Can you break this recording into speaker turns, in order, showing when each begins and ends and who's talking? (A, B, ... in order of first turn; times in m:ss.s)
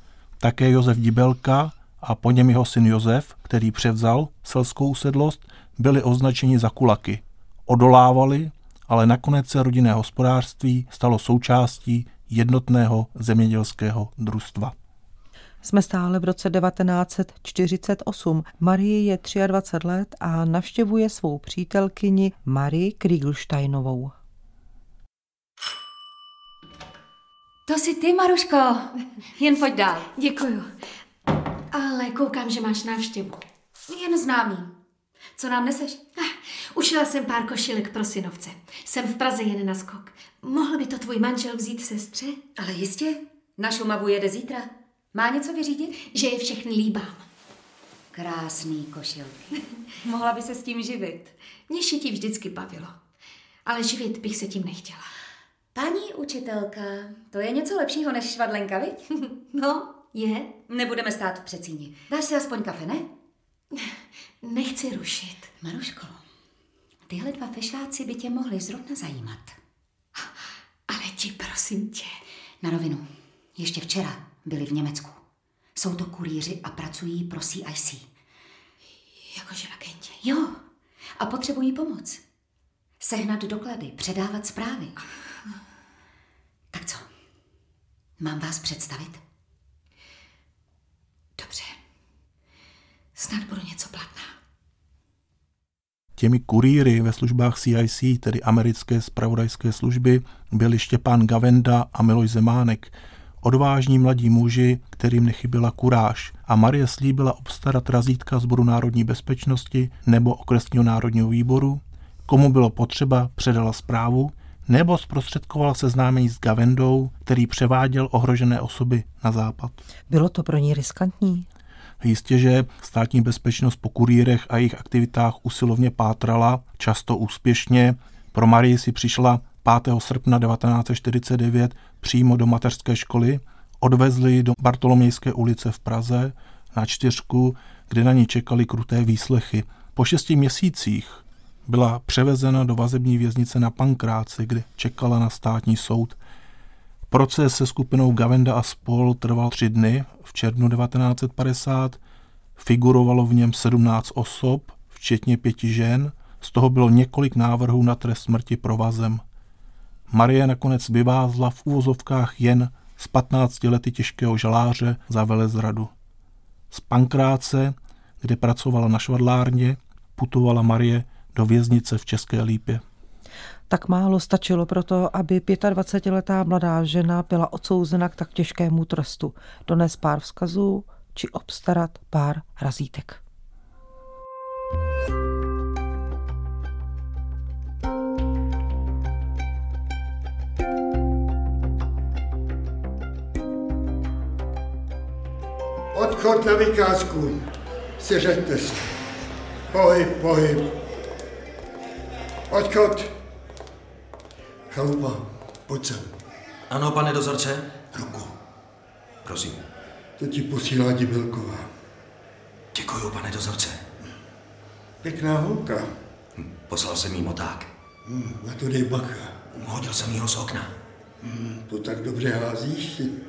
0:00.4-0:14.7 A
0:15.6-0:24.1 B
0:27.6-0:30.1 C
0:30.1-0:30.7 D
0:31.7-0:33.4 D
0:33.9-0:34.7 C
0:35.4-0:36.0 C
0:36.2-0:42.4 D
0:42.6-0:46.0 C
0:46.0-0:47.2 D
0:48.1-0:51.3 C
0:51.7-0:52.9 D
0:53.6-0:55.0 D
0:55.7-0:59.1 C
0:59.5-1:00.6 D
1:00.7-1:03.1 C
1:03.8-1:05.5 D
1:05.6-1:06.2 C
1:07.1-1:09.6 C
1:10.9-1:12.2 D
1:12.6-1:15.2 C
1:15.8-1:18.0 C
1:19.3-1:20.2 D
1:20.2-1:20.6 C
1:21.2-1:22.2 C
1:23.0-1:24.9 C
1:26.7-1:27.0 C
1:28.2-1:29.2 C
1:31.4-1:31.8 D
1:33.1-1:34.3 D
1:36.2-1:59.8 A
2:00.1-2:01.5 B
2:02.0-2:26.2 A
2:27.1-2:32.0 A
2:32.6-2:39.2 A
2:40.1-2:45.9 A
2:46.7-2:52.8 A
2:53.7-3:03.2 B
3:15.9-3:17.4 E
3:18.0-3:18.9 E
3:19.7-3:20.7 E
3:22.5-3:23.1 E
3:24.7-3:26.1 E
3:26.7-3:28.3 F
3:29.2-3:29.6 F
3:30.2-3:31.7 E
3:32.7-3:33.8 F
3:35.0-3:35.9 E
3:36.4-3:37.7 F
3:38.0-3:39.5 E
3:39.6-3:40.7 F
3:41.2-3:43.2 E